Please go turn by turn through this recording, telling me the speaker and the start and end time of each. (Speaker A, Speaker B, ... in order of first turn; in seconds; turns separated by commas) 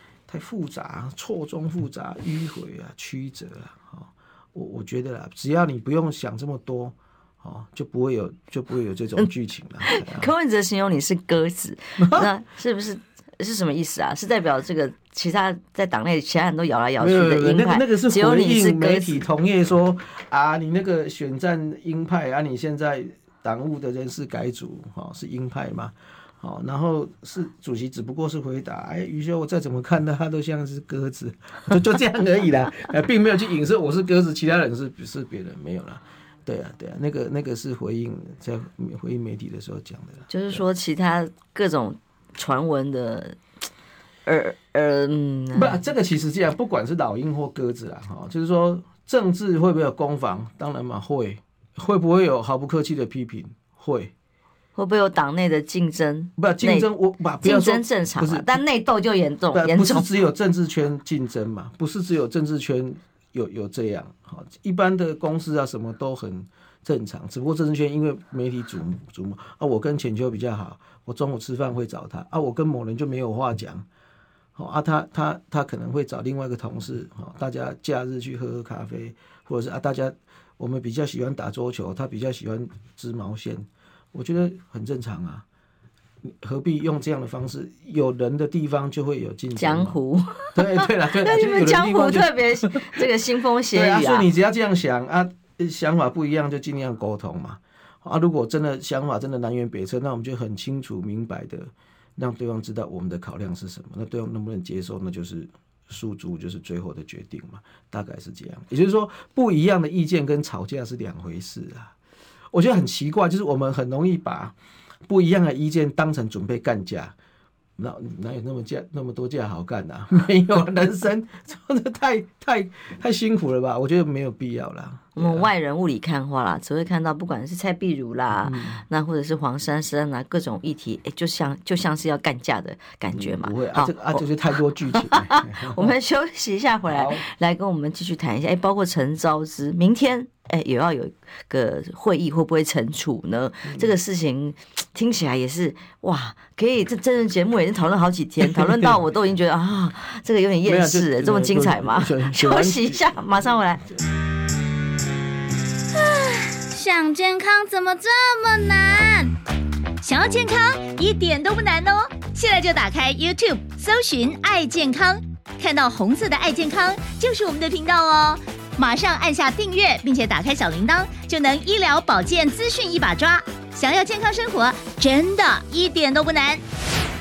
Speaker A: 0.3-10.3, Speaker B: 9.8-19.2, Speaker A: 12.0-12.3, Speaker A: 17.0-40.6, Speaker B: 40.3-43.4, Speaker B: 44.2-45.8, Speaker A: 45.5-54.1, Speaker B: 54.8-56.9, Speaker A: 56.4-58.6, Speaker B: 57.4-60.1, Speaker A: 59.5-73.8, Speaker A: 74.5-85.4, Speaker A: 86.2-90.0, Speaker B: 89.5-94.3, Speaker A: 90.5-93.1, Speaker A: 93.7-111.9, Speaker A: 112.5-114.5, Speaker A: 115.1-117.1, Speaker A: 117.8-125.5, Speaker B: 125.2-153.8, Speaker A: 128.4-128.8, Speaker A: 133.1-135.9, Speaker A: 136.9-137.2, Speaker A: 143.6-143.9, Speaker A: 150.7-153.1, Speaker C: 155.9-159.3, Speaker C: 160.0-176.6